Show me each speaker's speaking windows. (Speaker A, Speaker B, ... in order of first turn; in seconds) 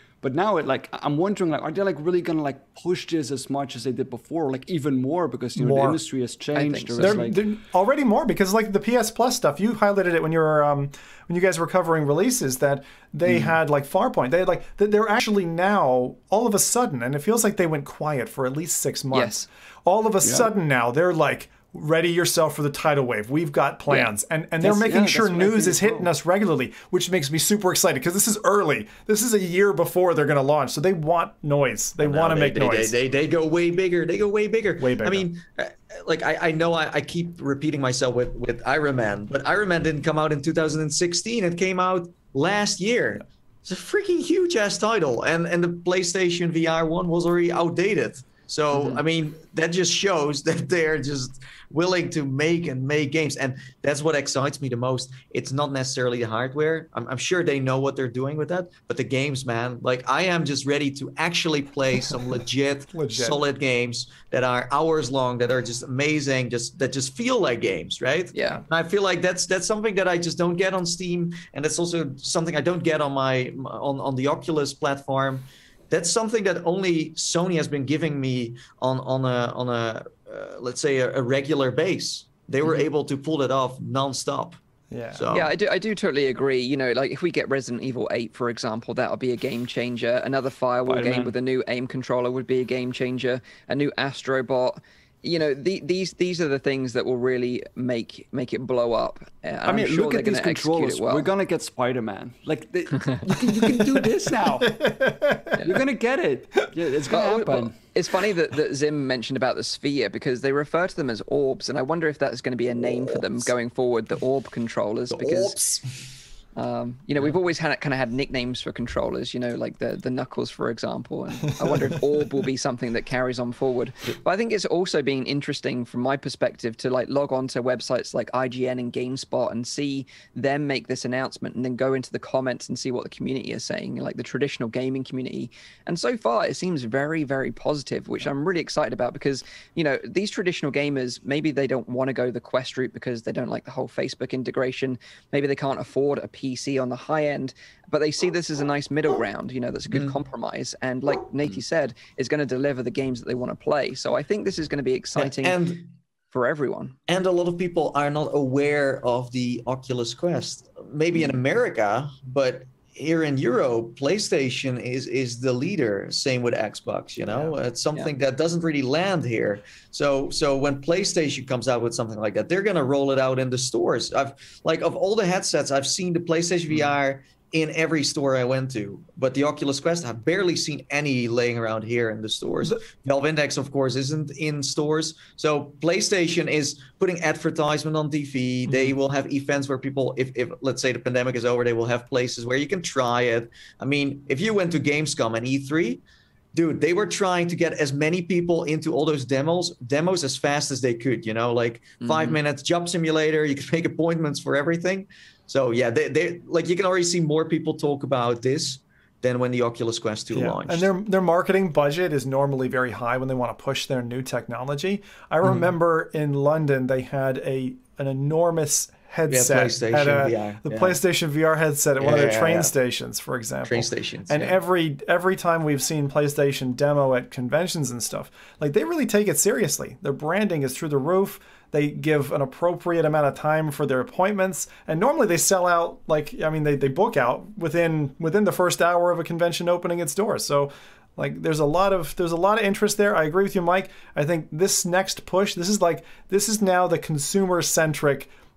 Speaker A: 0.2-7.4, 20.2-20.5, 24.6-26.0, 90.9-91.4, 99.7-105.0, 105.6-107.8
Speaker B: 5.6-6.0, 7.0-33.0, 34.8-35.3, 62.9-63.5, 84.9-85.3, 104.7-105.6, 167.3-167.5, 188.7-188.9, 210.3-248.3
Speaker C: 6.5-7.2, 19.1-19.5, 24.6-24.9, 68.3-68.6, 85.3-101.3, 105.5-105.8, 107.1-115.6, 116.6-155.6, 156.3-156.9, 202.0-202.4
Speaker D: 32.0-84.6, 85.1-85.5, 115.1-116.1, 149.9-150.2, 155.2-155.8, 157.1-196.0, 196.5-210.9, 219.3-221.0, 222.0-222.7, 223.7-224.6